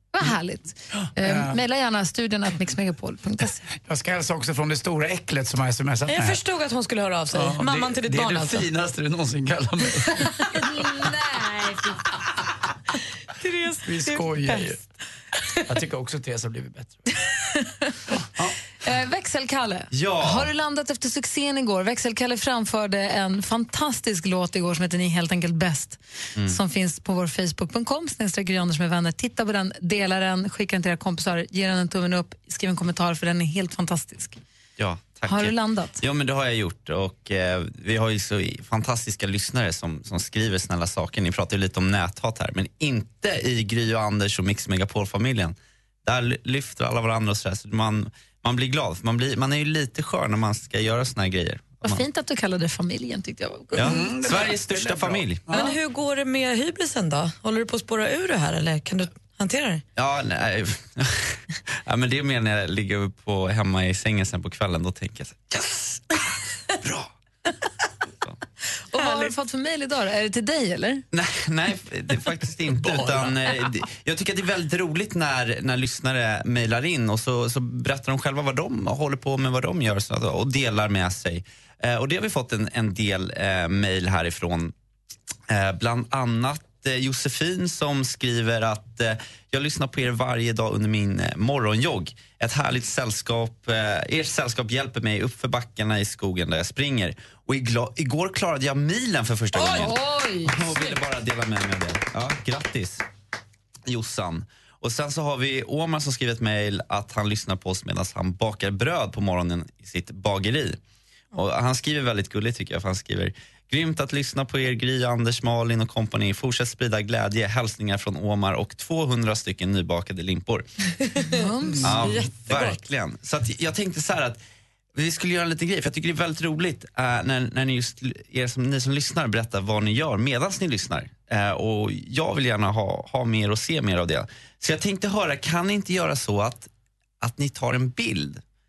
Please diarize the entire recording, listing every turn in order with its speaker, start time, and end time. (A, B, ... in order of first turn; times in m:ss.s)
0:00.1-0:03.6 A
0:01.0-0:01.6 B
0:03.8-0:06.4 B
0:06.1-0:08.6 C
0:07.3-0:10.3 B
0:10.6-0:12.0 A
0:13.4-0:14.7 C
0:13.8-0:14.8 B
0:15.7-0:17.0 B
0:18.8-0:34.4 A
0:19.9-0:20.5 D
0:34.8-0:52.0 D
0:35.2-0:36.0 A
0:51.8-0:54.0 A
0:53.8-0:55.4 D
0:53.8-0:55.7 B
0:55.5-0:59.8 C
1:00.0-1:01.2 D
1:01.8-1:05.8 D
1:06.8-1:07.1 D
1:08.9-1:11.0 A
1:11.1-1:24.7 D
1:12.9-1:13.3 B
1:25.5-1:43.0 D
1:39.6-1:39.9 C
1:39.6-1:40.6 A
1:40.7-1:41.0 C
1:43.9-1:50.8 D
1:51.3-2:00.7 D
2:01.0-2:02.8 C
2:01.3-2:01.9 A
2:01.8-2:04.4 D
2:05.0-2:16.7 D
2:17.2-2:18.4 D